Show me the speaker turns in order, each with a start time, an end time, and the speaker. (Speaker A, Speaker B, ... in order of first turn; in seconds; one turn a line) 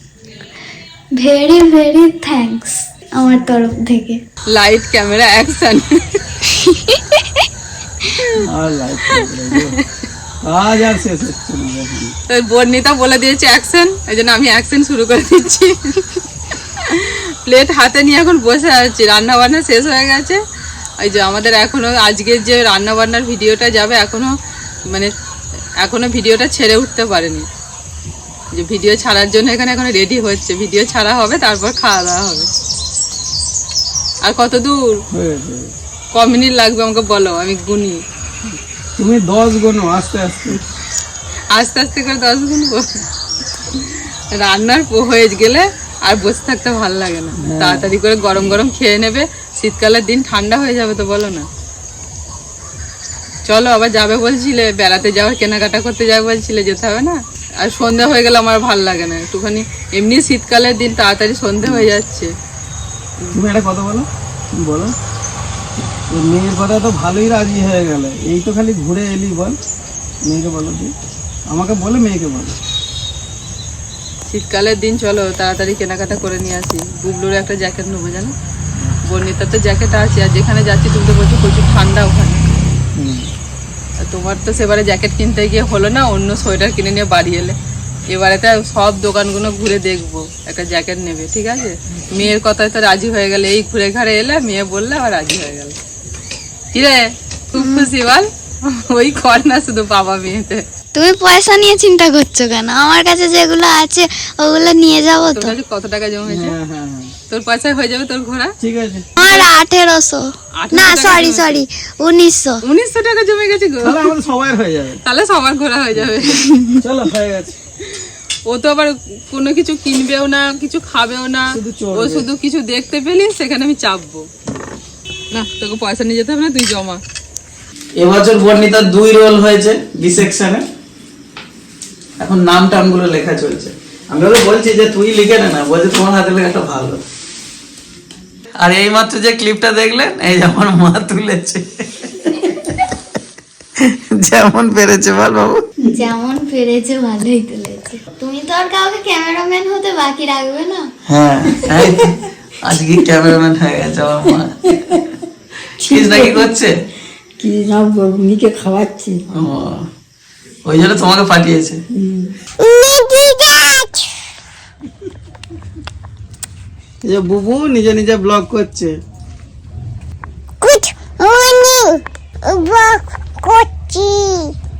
Speaker A: 1.2-4.2
Speaker B: 4.5-6.2
Speaker A: 6.9-7.1
Speaker C: 8.4-9.8
Speaker B: 9.2-9.8
Speaker C: 10.4-12.2
Speaker B: 12.3-20.4
Speaker B: 21.0-24.4
Speaker B: 24.9-25.1
Speaker B: 25.8-27.5
Speaker B: 28.5-32.5
Speaker B: 34.2-35.0
Speaker C: 35.1-35.7
Speaker B: 36.1-38.0
Speaker C: 39.0-40.6
Speaker B: 41.5-43.0
Speaker B: 43.7-51.5
Speaker C: 47.4-47.9
Speaker B: 53.4-62.3
Speaker C: 63.3-64.9
Speaker C: 66.1-69.6
Speaker C: 70.2-70.9
Speaker C: 71.5-72.6
Speaker B: 74.3-78.3
Speaker B: 79.0-82.5
Speaker C: 82.9-83.3
Speaker B: 84.0-87.6
Speaker B: 88.1-95.8
Speaker B: 96.7-100.7
Speaker A: 97.6-97.9
Speaker A: 100.9-105.5
Speaker B: 105.3-106.6
Speaker C: 106.3-107.1
Speaker B: 107.3-108.5
Speaker C: 108.6-109.1
Speaker B: 109.2-109.5
Speaker A: 109.2-112.6
Speaker B: 110.6-111.6
Speaker B: 112.6-114.1
Speaker C: 113.8-115.0
Speaker B: 115.1-116.5
Speaker A: 116.4-116.7
Speaker C: 116.8-117.6
Speaker B: 117.8-124.3
Speaker C: 121.5-122.3
Speaker B: 125.3-127.0
Speaker C: 128.0-130.6
Speaker C: 132.2-137.0
Speaker C: 138.6-142.8
Speaker C: 143.8-145.6
Speaker A: 145.9-150.9
Speaker C: 151.1-154.7
Speaker D: 151.6-152.1
Speaker D: 154.2-155.0
Speaker D: 155.8-156.5
Speaker C: 155.8-156.7
Speaker D: 157.4-159.2
Speaker C: 159.3-159.9
Speaker C: 160.7-161.8
Speaker D: 161.9-162.3
Speaker E: 162.6-164.1
Speaker C: 167.0-168.9
Speaker E: 170.6-174.5